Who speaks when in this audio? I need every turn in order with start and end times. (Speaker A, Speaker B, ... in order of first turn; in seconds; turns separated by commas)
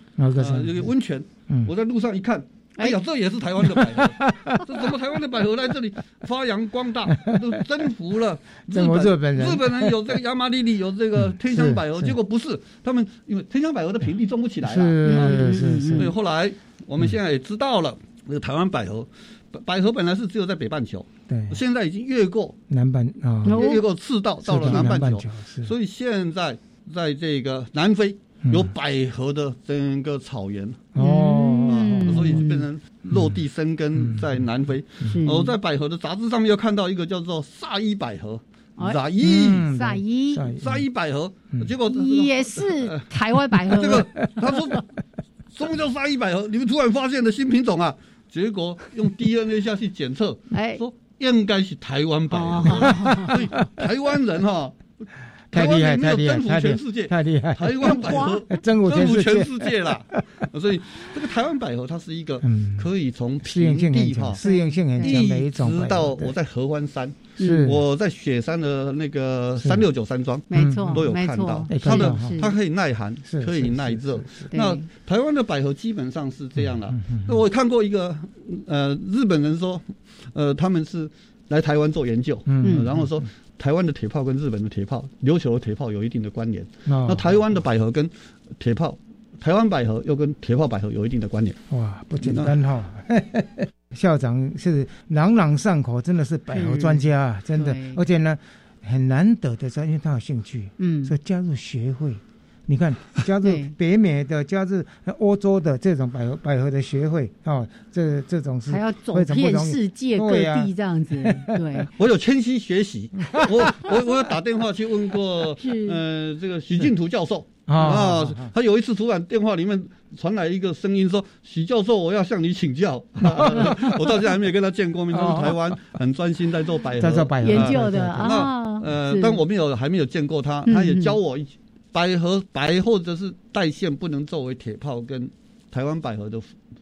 Speaker A: 0.2-0.9, Speaker B: 0.3-22.6, Speaker A: 3.6-4.9, Speaker A: 7.1-7.6, Speaker A: 8.7-10.2, Speaker A: 11.2-12.2, Speaker A: 14.6-16.1, Speaker C: 15.0-16.1, Speaker A: 21.3-21.6, Speaker A: 22.7-23.7, Speaker B: 23.4-30.9, Speaker C: 23.4-23.8, Speaker A: 24.4-25.7, Speaker A: 28.4-28.7, Speaker A: 30.9-32.4, Speaker C: 30.9-32.6, Speaker B: 31.7-39.7, Speaker A: 33.1-33.4, Speaker A: 33.9-34.4, Speaker C: 35.0-35.5, Speaker A: 39.2-40.9, Speaker C: 39.6-40.5, Speaker B: 40.6-43.0, Speaker C: 41.9-44.1, Speaker B: 43.6-44.9, Speaker B: 45.5-54.8, Speaker C: 50.5-50.8, Speaker C: 52.3-53.3, Speaker A: 52.7-53.3, Speaker A: 55.5-60.2, Speaker B: 55.5-64.4, Speaker C: 57.8-58.4, Speaker A: 62.4-62.9, Speaker A: 63.4-66.3, Speaker C: 64.4-65.2, Speaker B: 65.0-91.6, Speaker C: 67.4-67.7, Speaker A: 67.4-67.8, Speaker A: 69.6-69.8, Speaker C: 70.5-72.5, Speaker A: 70.5-71.0, Speaker A: 71.7-72.4, Speaker A: 73.2-74.5, Speaker C: 74.5-74.8, Speaker A: 76.6-77.4, Speaker A: 82.5-83.2, Speaker A: 86.8-87.4, Speaker A: 91.7-111.6, Speaker B: 92.2-92.5, Speaker C: 96.5-98.0, Speaker C: 100.8-101.1, Speaker C: 103.4-103.7, Speaker C: 108.7-111.9, Speaker B: 111.9-136.5, Speaker A: 113.3-113.9, Speaker C: 115.6-116.0, Speaker A: 117.7-118.5, Speaker A: 123.2-124.0, Speaker A: 125.1-125.8, Speaker A: 127.0-128.5, Speaker C: 127.4-129.4, Speaker C: 130.7-131.1